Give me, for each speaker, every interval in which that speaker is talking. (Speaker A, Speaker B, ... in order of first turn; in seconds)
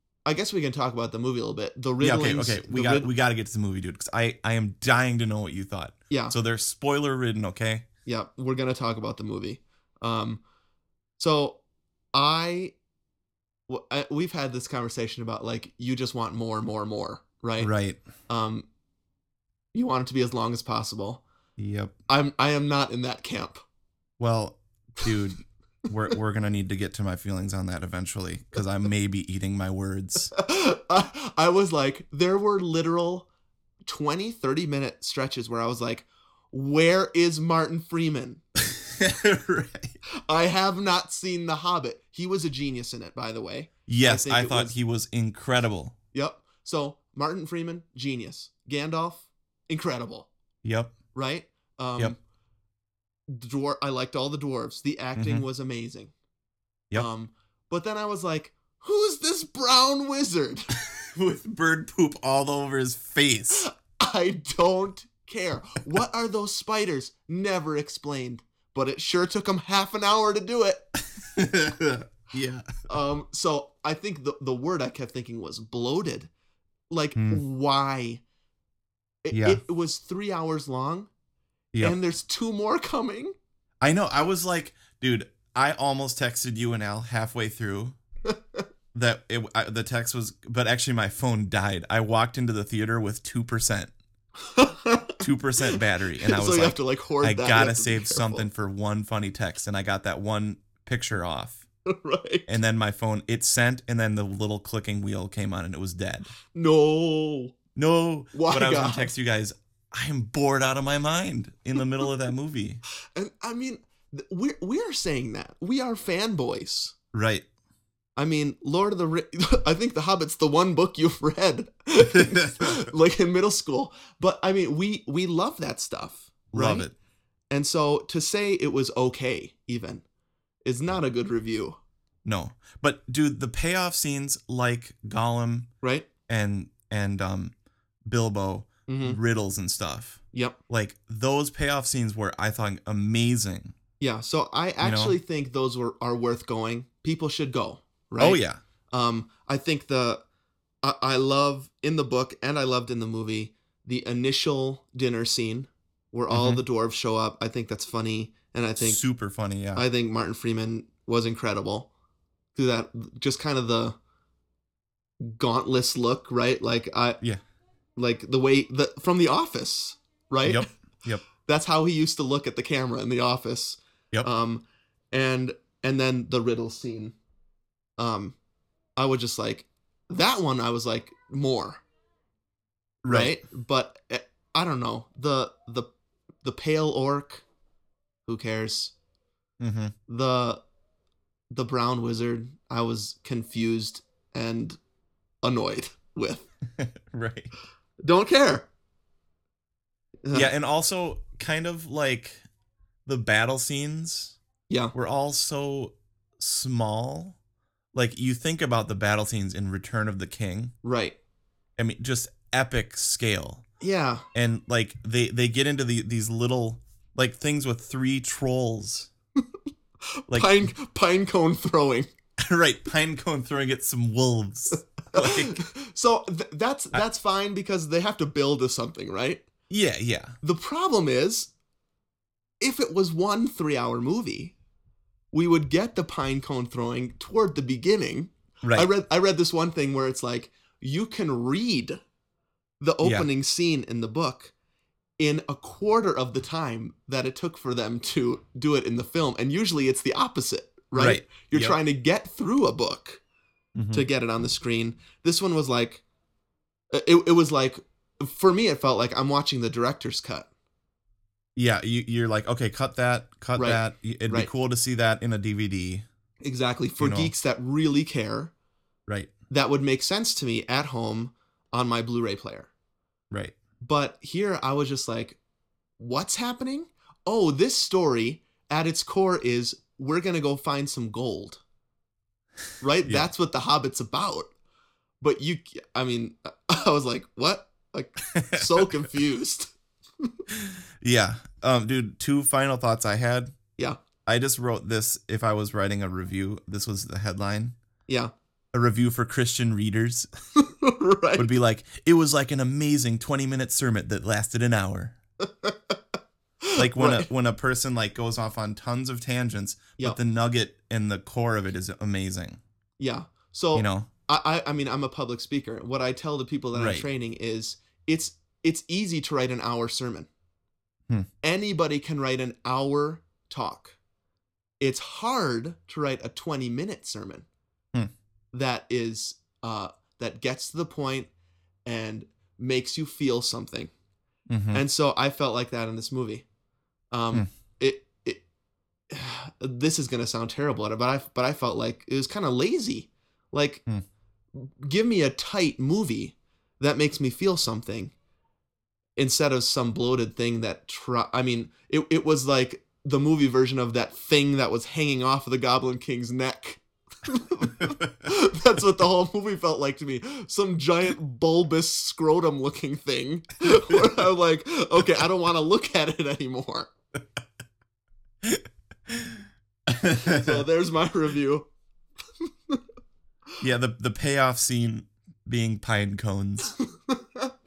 Speaker A: 0.2-3.1, 6.1-6.3, 8.1-10.4, 11.2-11.6, 12.1-12.7, 13.7-17.7, 18.3-18.6, 19.7-21.2, 22.1-23.6, 30.4-33.3, 33.9-38.4, 40.3-44.8, 46.1-50.3, 51.1-52.1, 53.3-56.1, 57.0-60.7, 63.6-70.9, 72.9-76.3, 76.9-78.2, 79.2-81.1, 81.8-83.3, 88.3-88.6, 94.5-98.5, 101.9-102.5, 106.5-107.5, 108.3-109.1, 113.1-116.9, 118.2-126.9, 127.5-130.0, 130.6-131.8, 135.8-136.1, 138.9-139.2, 144.0-150.2, 150.8-159.0, 159.8-161.9, 162.5-164.0, 165.2-167.2, 168.0-170.7, 171.4-177.1, 178.0-178.3, 179.0-181.8, 183.1-185.9, 186.4-187.4, 188.2-188.9, 190.1-190.6, 191.5-194.8, 195.4-196.5, 198.0-198.7, 200.2-200.5, 204.7-204.9, 210.8-211.2, 213.8-214.2, 220.3-222.1, 225.2-229.4, 230.4-231.5, 232.6-234.5, 235.3-242.0, 242.8-244.5, 245.2-253.2, 253.9-256.0, 256.9-260.5, 263.6-264.5, 266.4-268.5, 269.5-272.7, 273.8-275.4, 276.0-281.6, 282.8-284.5, 285.2-289.7, 298.1-298.3, 300.6-301.5, 305.4-306.0, 306.6-307.3, 313.0-320.3, 321.4-324.0, 324.8-327.4, 328.5-331.3, 331.9-333.9, 334.7-336.4, 337.1-338.4, 339.1-343.8, 344.5-348.1, 349.2-366.9, 370.2-371.7, 377.1-377.5
Speaker B: 2.0-7.8, 17.6-18.0, 21.6-21.9, 24.2-30.3, 38.8-40.0, 43.9-45.9, 50.6-50.9, 55.2-55.5, 61.1-63.6, 71.2-72.7, 77.2-77.4, 79.3-79.6, 83.8-88.0, 88.9-93.9, 95.2-101.6, 102.5-106.3, 107.8-112.8, 117.1-117.5, 122.1-122.8, 126.5-126.9, 132.2-135.7, 136.3-137.5, 138.1-143.8, 144.8-145.2, 148.2-148.6, 156.3-156.6, 158.8-159.8, 170.4-171.2, 183.0-183.4, 189.6-189.9, 196.8-197.5, 200.3-202.4, 203.1-204.4, 204.9-207.4, 207.9-210.7, 211.8-213.6, 214.3-219.1, 220.3-220.7, 222.5-225.6, 229.7-230.4, 238.6-238.9, 250.9-251.8, 253.8-254.0, 261.6-266.0, 267.0-267.3, 288.4-288.6, 290.5-293.5, 294.2-297.8, 298.7-300.3, 301.4-305.1, 306.8-312.6, 313.8-314.1, 316.7-317.0, 334.5-334.8, 368.4-370.6, 373.6-376.7